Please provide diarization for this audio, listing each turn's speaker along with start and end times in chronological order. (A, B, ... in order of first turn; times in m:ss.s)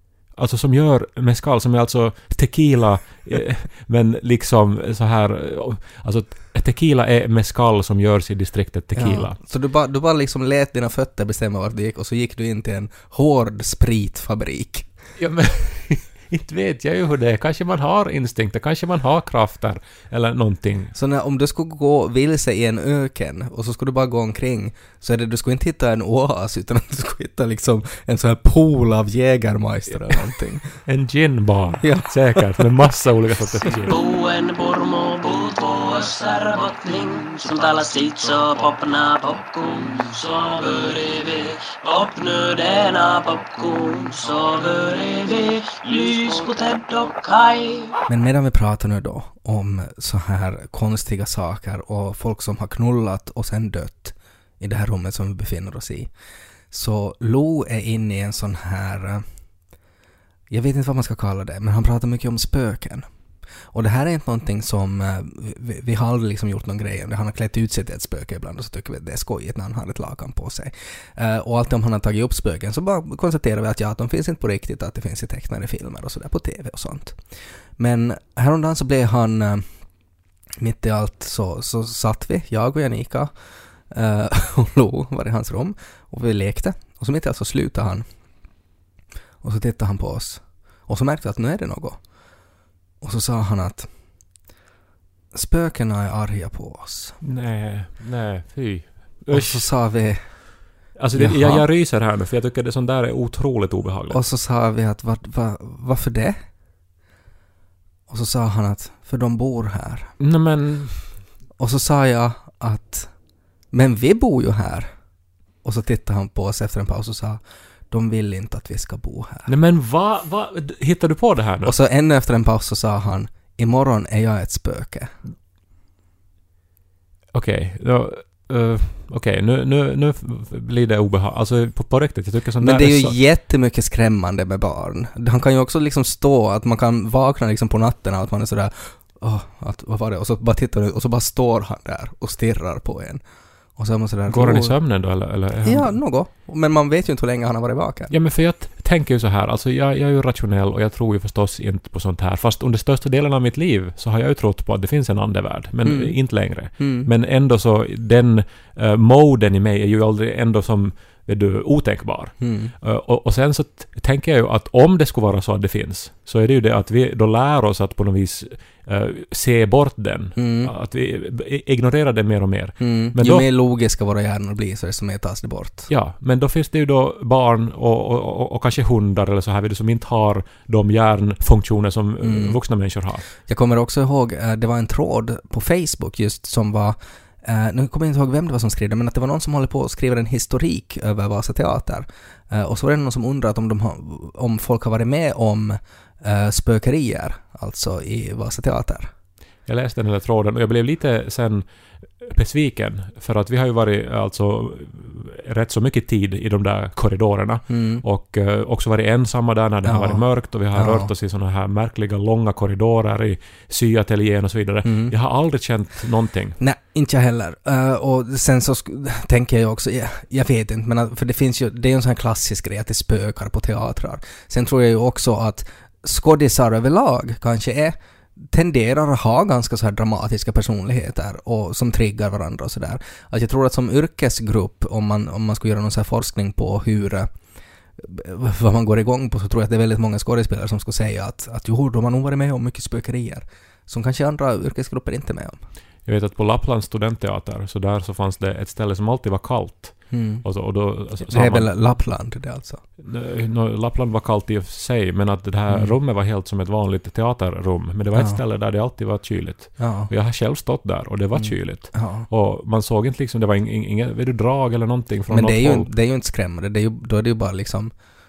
0:00.3-0:09.4 A
0:08.9-0:14.9 B
0:15.2-0:20.9 A
0:20.9-0:30.8 B
0:30.8-0:33.9 A
0:31.8-0:32.4 B
0:33.9-0:48.0 C
0:48.1-0:56.1 B
0:56.7-0:59.2 B
1:00.5-1:03.1 B
1:03.7-1:19.7 B
1:20.6-1:23.3 B
1:23.9-1:28.2 B
1:29.4-1:32.4 B
1:33.0-1:33.9 B
1:35.3-1:37.2 B
1:37.2-1:39.7 A
1:39.3-1:41.7 B
1:40.9-1:44.2 A
1:44.1-1:46.4 B
1:48.1-1:50.1 B
1:50.2-1:51.2 A
1:51.6-1:53.1 B
1:53.7-1:54.9 B
1:55.6-1:59.5 B
1:59.5-2:01.8 A
2:01.6-2:05.2 B
2:07.3-2:13.2 A
2:12.6-2:23.2 B
2:23.8-2:24.8 B
2:24.3-2:26.0 A
2:25.6-2:28.1 B
2:28.1-2:53.5 A
2:35.8-2:37.1 B
2:42.4-2:42.7 B
2:50.4-2:50.7 B
2:52.8-2:55.9 B
2:55.9-3:03.2 A
3:02.2-3:02.6 B
3:03.4-3:19.1 B
3:19.7-3:36.6 A
3:27.7-3:28.0 B
3:29.8-3:31.1 B
3:34.8-3:35.1 B
3:36.6-3:57.3 B
3:58.0-4:05.6 B
4:06.0-4:11.7 A
4:10.1-4:10.4 B
4:11.3-4:12.8 B
4:13.0-4:25.9 A
4:15.7-4:15.9 B
4:18.1-4:18.4 B
4:19.8-4:20.1 B
4:21.3-4:22.3 B
4:25.3-4:27.9 B